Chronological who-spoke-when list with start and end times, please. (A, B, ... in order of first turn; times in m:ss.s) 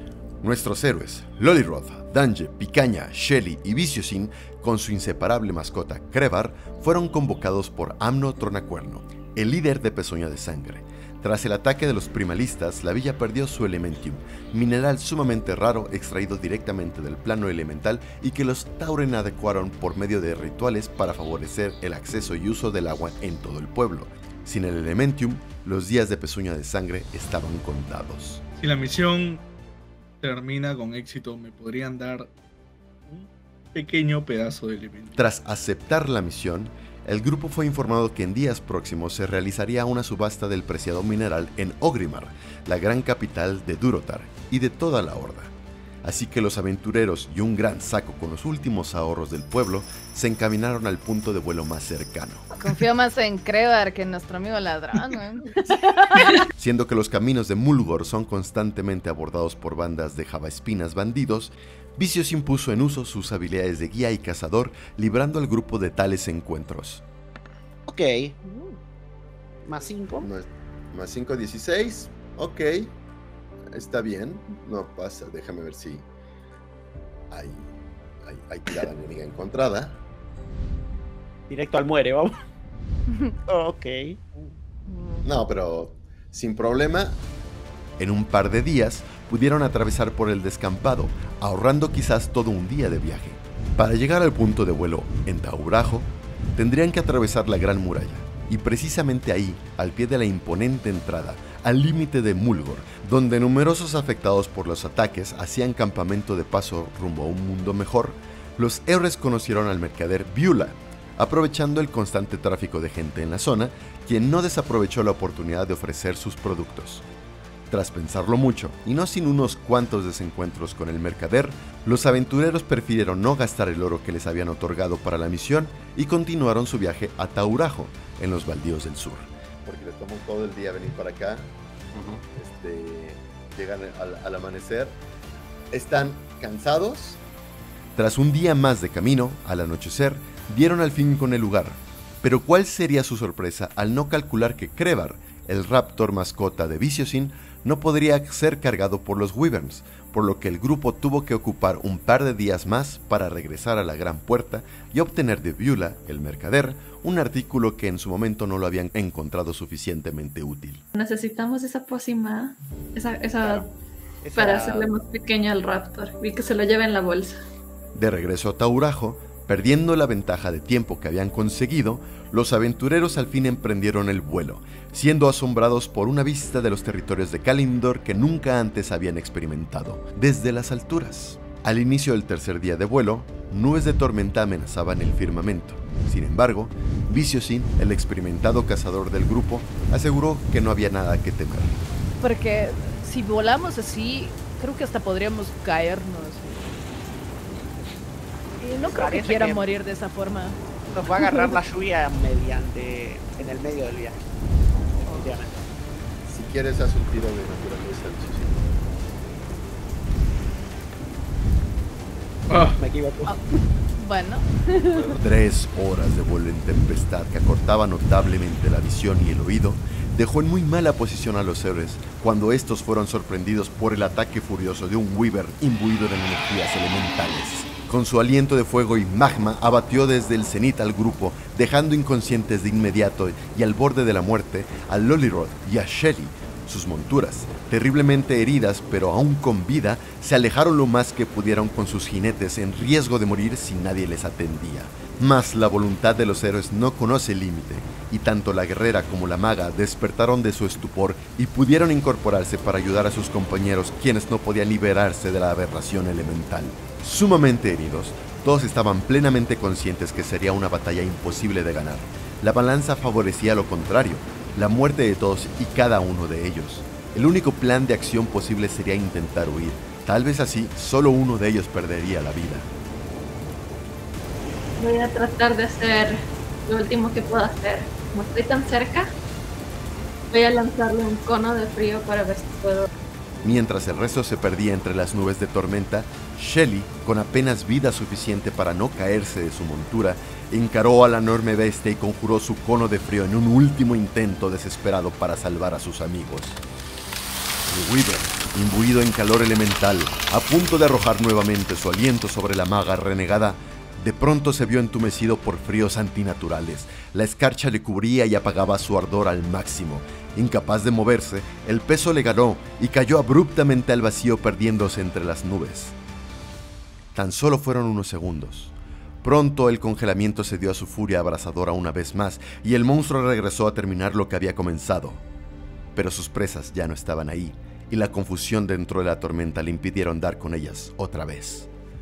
0:00.4-0:28.4 A
0:28.6-0:29.4 B
0:30.2-0:32.3 B
0:33.1-0:35.2 B
0:35.2-0:52.5 A
0:52.6-0:56.4 C
0:56.6-1:07.0 A
1:07.9-1:08.8 D
1:09.6-1:10.3 D
1:10.2-1:12.9 A
1:13.7-1:16.1 A
1:17.3-1:17.7 A
1:18.2-1:20.0 A
1:21.5-1:22.3 D
1:23.5-1:24.4 D
1:24.9-1:25.2 C
1:25.2-1:27.2 A
1:28.0-1:57.0 A
1:57.7-2:11.5 A
2:12.1-2:15.0 A
2:15.7-2:17.2 A
2:18.0-2:40.8 A
2:40.9-2:43.7 E
2:44.2-2:44.9 D
2:44.4-2:47.3 E
2:47.9-3:11.8 A
3:12.2-3:16.7 C
3:18.6-3:20.6 C
3:18.8-3:19.6 D
3:20.9-3:24.2 D
3:21.1-3:21.6 C
3:25.1-3:25.5 D
3:26.3-3:28.7 A
3:32.5-3:32.8 B
3:32.7-3:33.4 D
3:33.2-3:35.2 C
3:35.1-4:32.7 A
4:34.8-4:39.1 E
4:40.3-4:42.9 E
4:43.4-4:56.6 A
4:57.7-5:16.0 A
5:17.1-5:25.2 A
5:25.9-5:31.7 A